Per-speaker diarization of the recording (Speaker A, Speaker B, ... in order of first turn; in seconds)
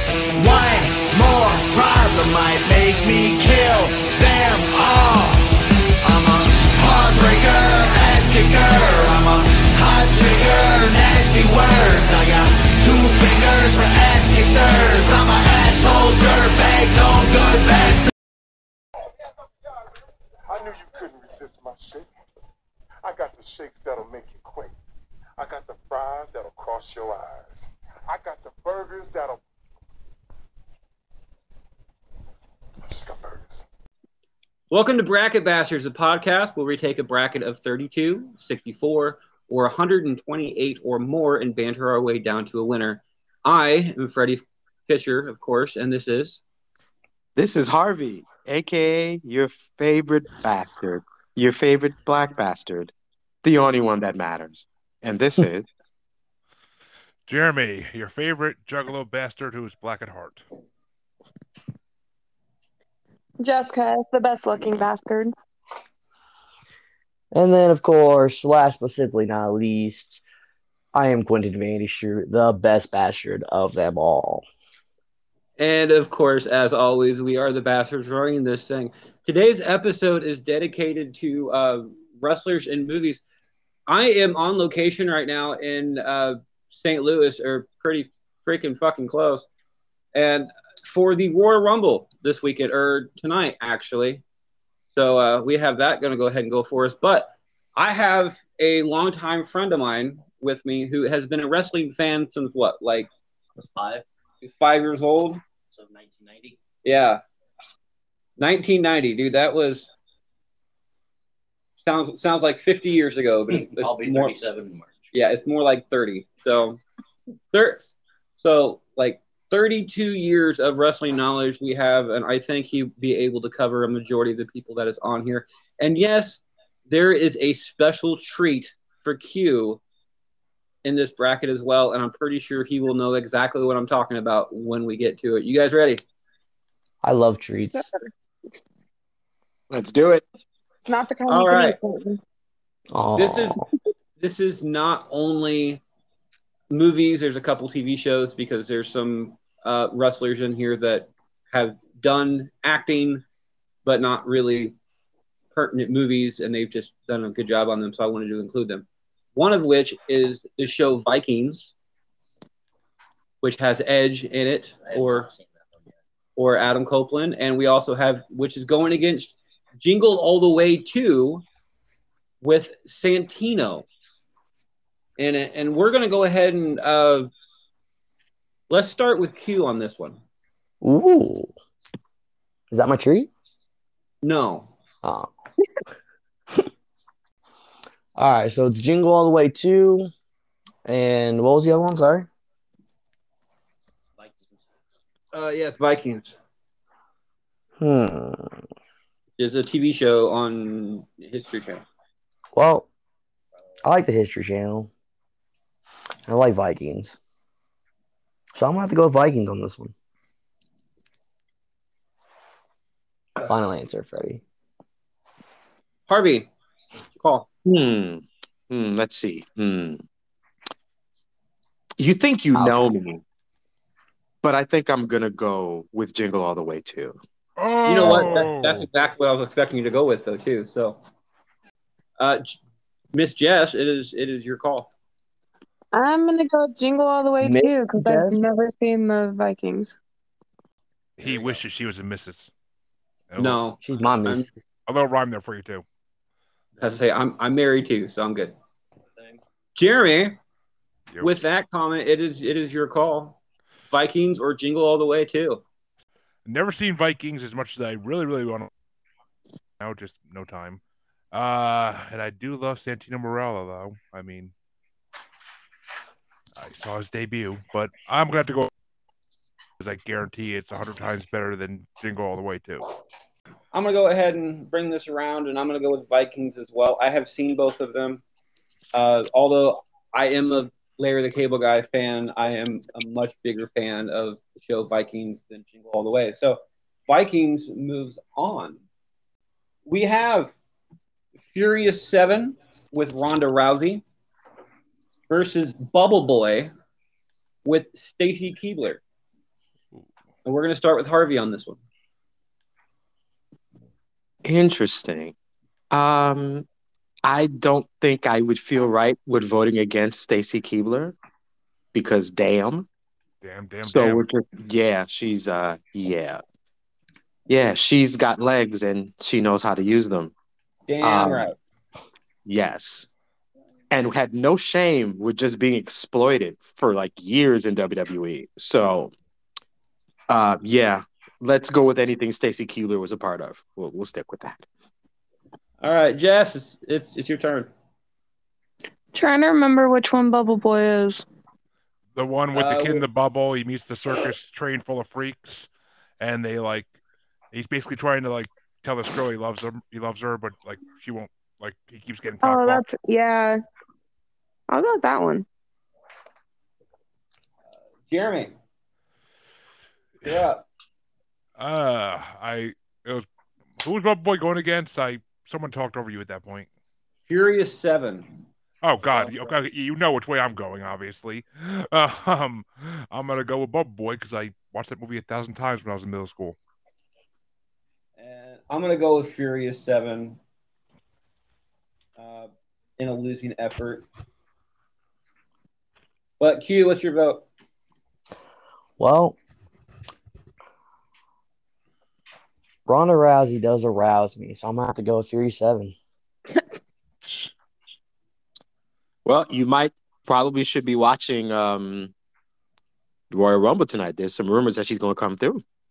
Speaker A: 0.4-18.1
Speaker B: 20.5-22.1, 23.0-24.8, 25.4-29.4, 32.9-33.6
Speaker C: 34.7-46.4, 75.6-83.2, 83.9-89.5, 90.1-94.2, 94.9-103.1, 104.4-105.4, 106.8-107.2, 108.4-109.9, 111.8-114.3, 115.1-116.8, 117.5-117.8, 118.4-129.8, 130.8-136.0, 141.3-141.8, 143.2-143.6, 144.2-145.8, 146.7-153.2, 153.8-154.8, 155.5-161.7, 163.4-165.3, 166.4-171.4, 172.4-173.9, 175.2-177.3, 178.7-180.2, 184.2-184.7, 195.3-196.4, 199.4-201.8, 216.1-216.5, 217.2-217.5, 227.8-231.0, 232.2-232.6, 233.1-234.9, 241.3-241.6, 243.4-244.5, 246.8-248.5, 249.8-250.4, 251.2-253.4, 253.9-255.6, 273.7-278.2, 278.9-288.8, 289.9-290.6, 291.4-294.0, 295.3-296.7, 297.6-299.0, 300.4-301.8, 320.9-321.6, 335.8-337.7, 342.5-343.1, 358.1-358.5, 360.2-360.6, 367.3-368.3, 369.1-369.5, 378.2-380.4, 382.2-384.1, 386.4-387.5
Speaker D: 47.4-52.9, 53.4-55.7, 139.7-140.2, 217.7-220.0, 222.0-223.2, 224.4-227.2, 304.4-305.3, 305.9-306.7, 307.2-311.2, 311.9-312.9, 313.8-316.4, 317.5-320.3, 321.0-321.5, 322.5-323.1, 323.9-329.1, 330.3-334.6, 399.2-402.1, 403.3-405.6
Speaker E: 57.3-60.5, 227.6-228.9, 241.2-242.5, 243.3-243.6, 244.9-245.8, 256.5-258.7, 259.8-260.8, 261.3-264.5, 266.6-268.7, 269.8-272.9, 313.4-314.3, 342.1-345.7, 346.2-346.9, 347.5-352.8, 361.6-363.3, 363.8-366.7, 368.8-376.6, 397.2-397.5
Speaker F: 63.4-65.3, 137.8-138.0, 140.9-142.2, 235.9-240.0, 339.1-341.2, 352.4-353.6, 354.7-355.5
Speaker G: 67.3-70.2, 70.9-74.5, 137.0-137.9, 142.9-143.7, 180.8-181.5, 182.7-183.3, 185.0-185.3, 188.2-190.1, 190.8-192.3, 197.8-198.6, 202.5-202.9, 203.8-204.9, 206.3-207.2, 208.5-209.9, 213.4-214.4, 222.5-222.9, 237.4-238.4, 243.8-244.5, 389.0-389.4, 392.9-395.9
Speaker H: 103.5-104.0, 105.7-106.6, 113.5-115.1, 164.8-165.5